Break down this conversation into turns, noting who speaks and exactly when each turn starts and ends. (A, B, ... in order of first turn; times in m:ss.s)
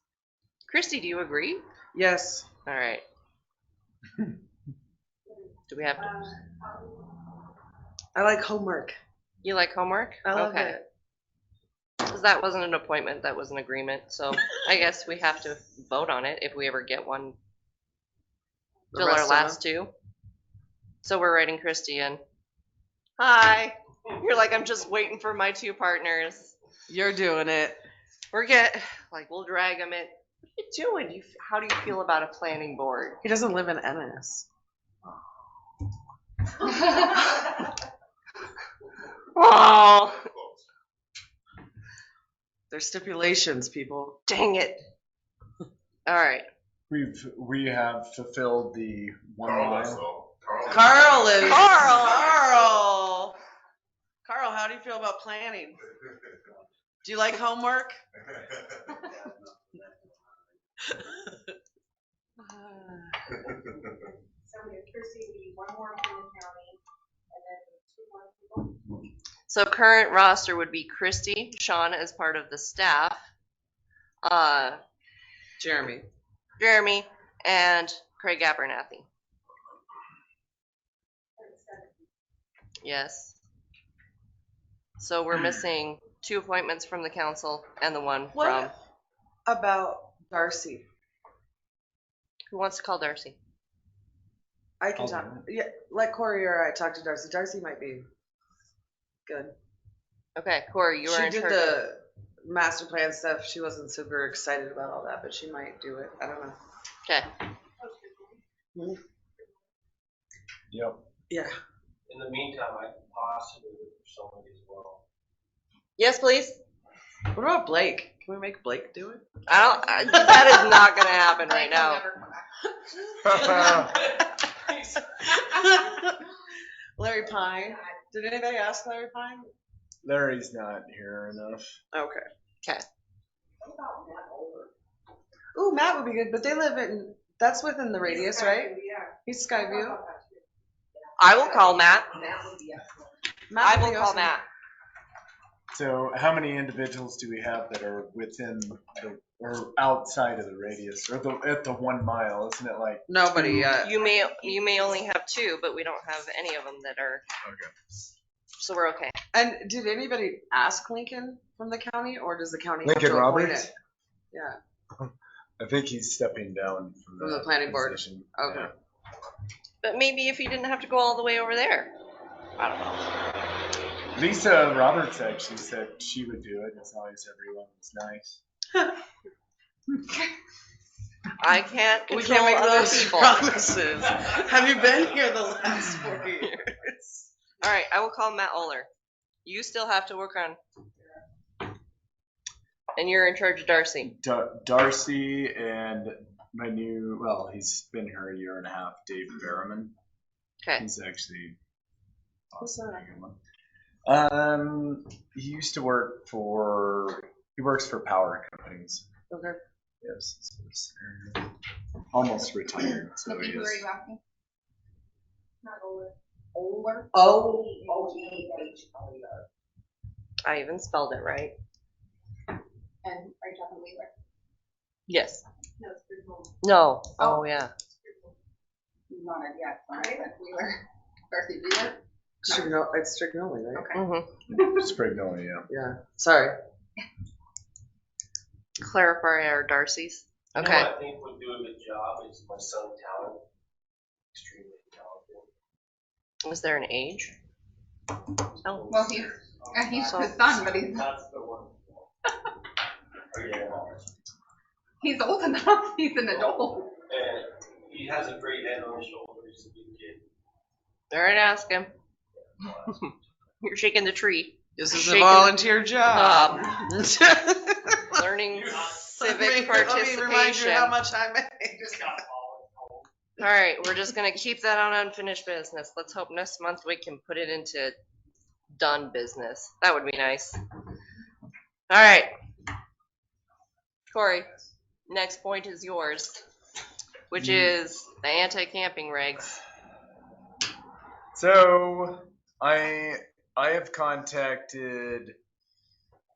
0:00.7-0:01.6 A
0:01.9-0:02.4 B
0:02.6-0:03.0 A
0:05.7-0:06.2 A
0:06.5-0:06.9 C
0:08.1-0:09.0 B
0:09.4-0:10.8 A
0:10.2-0:10.8 B
0:12.0-0:17.4 A
0:18.9-0:19.6 B
0:18.9-0:19.9 A
0:21.0-0:22.2 A
0:23.2-0:26.5 A
0:26.9-0:27.8 B
0:28.3-0:33.2 A
0:33.2-0:34.4 B
0:39.3-0:40.3 A
0:42.7-0:44.2 B
0:44.3-0:44.8 A
0:46.0-0:46.5 A
0:46.9-0:50.1 D
0:49.4-0:52.0 E
0:50.6-0:53.4 B
0:51.4-0:52.4 A
0:54.2-0:55.8 B
0:57.0-0:58.0 B
0:59.1-0:59.9 F
1:00.9-1:01.4 B
1:02.5-1:02.9 A
1:04.4-1:06.8 C
1:07.3-1:09.0 C
1:09.5-1:13.2 A
1:14.2-1:14.8 A
1:15.6-1:16.1 B
1:16.6-1:19.0 A
1:21.4-1:21.9 C
1:22.8-1:23.4 A
1:25.0-1:28.7 A
1:28.3-1:28.7 B
1:29.4-1:30.8 B
1:32.5-1:33.4 A
1:34.8-1:38.0 B
1:35.0-1:35.4 D
1:39.2-1:39.5 B
1:40.4-1:41.8 A
1:41.0-1:46.6 B
1:47.8-1:48.2 C
1:48.7-1:49.0 B
1:50.7-1:51.0 D
1:51.3-1:51.5 B
1:52.1-1:55.0 F
1:56.0-1:56.6 A
1:57.3-1:59.2 B
1:59.5-2:02.0 A
2:01.4-2:03.2 C
2:03.2-2:03.9 D
2:03.4-2:05.4 F
2:05.2-2:06.3 B
2:07.0-2:09.5 B
2:10.0-2:11.8 D
2:11.9-2:12.2 B
2:13.6-2:14.7 C
2:15.5-2:20.0 B
2:18.2-2:20.4 C
2:21.2-2:22.1 A
2:21.4-2:23.1 C
2:23.5-2:24.4 B
2:23.6-2:24.4 A
2:25.7-2:33.7 D
2:33.1-2:34.0 B
2:33.7-2:37.2 A
2:37.4-2:37.7 D
2:38.6-2:39.1 A
2:39.3-2:43.7 B
2:42.8-2:43.7 D
2:44.3-2:44.6 B
2:45.0-2:48.7 D
2:47.2-2:48.7 B
2:49.8-2:51.9 A
2:52.6-2:53.1 A
2:54.1-2:58.4 D
3:01.4-3:03.5 A
3:02.1-3:07.3 B
3:07.6-3:08.9 A
3:09.4-3:10.6 A
3:13.0-3:14.1 A
3:14.0-3:19.9 D
3:20.8-3:21.6 D
3:22.5-3:23.4 D
3:22.6-3:23.0 B
3:24.0-3:29.0 D
3:29.3-3:29.6 B
3:30.0-3:31.5 D
3:32.1-3:33.8 D
3:33.2-3:34.2 C
3:35.6-3:39.4 C
3:37.1-3:38.6 B
3:40.4-3:41.5 A
3:43.0-3:44.1 C
3:45.1-3:45.4 A
3:45.8-3:46.6 C
3:46.6-3:47.7 A
3:47.2-3:48.3 C
3:49.1-3:52.8 C
3:52.4-3:53.9 B
3:53.7-3:54.0 C
3:53.9-3:54.3 A
3:54.5-3:55.7 D
3:54.5-3:54.8 C
3:55.7-3:56.5 B
3:58.8-4:00.9 A
4:00.6-4:03.4 F
4:04.3-4:05.5 F
4:06.4-4:07.3 A
4:08.6-4:12.1 F
4:08.6-4:09.1 A
4:08.9-4:11.1 C
4:10.0-4:10.3 A
4:13.3-4:14.1 F
4:15.0-4:16.9 C
4:17.1-4:20.2 F
4:21.1-4:21.9 A
4:22.5-4:22.9 F
4:23.6-4:25.6 A
4:24.8-4:28.2 B
4:26.1-4:26.9 A
4:28.1-4:30.9 A
4:28.9-4:32.2 B
4:32.0-4:33.0 F
4:33.4-4:37.9 A
4:38.7-4:40.6 A
4:41.9-4:42.3 A
4:44.1-4:44.5 A
4:45.1-4:46.4 A
4:47.3-4:49.6 A
4:47.4-4:47.7 D
4:51.3-4:55.3 D